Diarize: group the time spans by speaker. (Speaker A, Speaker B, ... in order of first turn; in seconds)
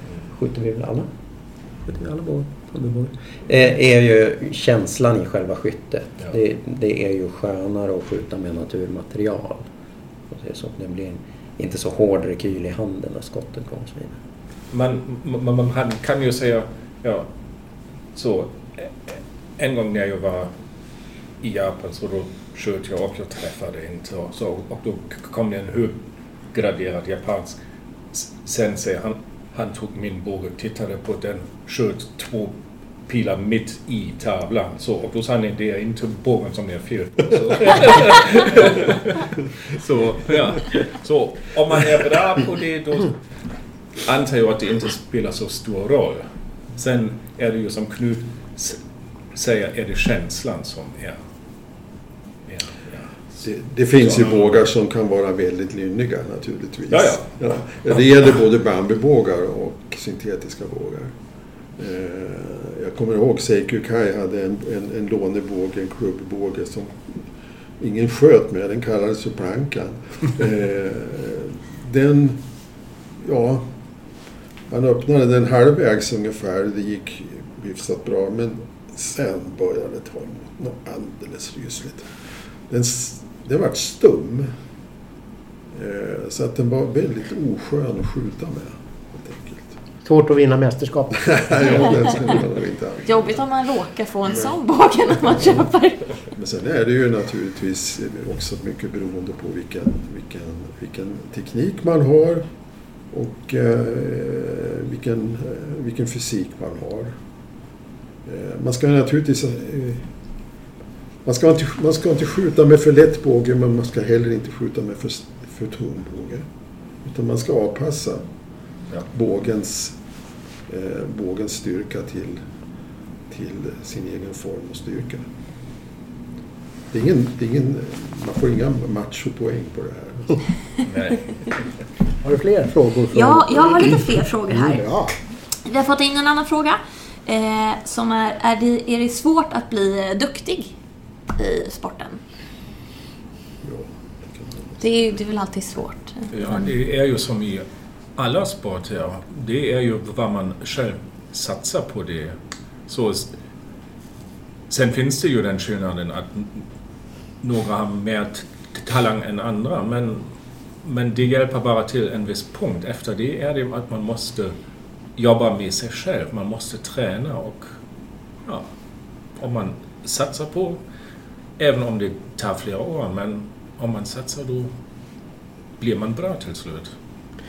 Speaker A: 0.3-1.1, 1.9-9.7, 10.3-14.2
Speaker B: 14.7-17.3, 18.1-20.5, 21.4-26.0, 26.5-27.6, 28.1-32.5, 33.1-43.2, 44.0-48.8, 49.3-51.2, 52.5-53.1, 54.0-54.5, 56.9-57.3, 130.8-131.5, 146.3-147.6, 148.2-152.3, 152.9-153.3, 154.7-156.6, 157.4-164.5, 165.2-167.7, 169.3-170.8, 171.6-174.7, 175.8-176.9
Speaker C: 53.4-61.1, 61.8-67.2, 67.8-72.4, 73.2-73.7, 74.7-82.1, 82.7-84.5, 85.7-89.7, 91.2-93.4, 95.3-95.6, 96.3-102.4, 103.1-107.1, 108.2-110.0, 111.2-116.4, 117.0-118.2, 119.0-119.9, 120.7-122.4, 123.3-125.2, 126.9-130.4, 143.6-144.8
Speaker D: 90.0-91.9, 132.2-135.2
Speaker E: 93.0-96.0, 133.1-134.8, 135.6-140.7, 141.3-142.2, 144.8-146.7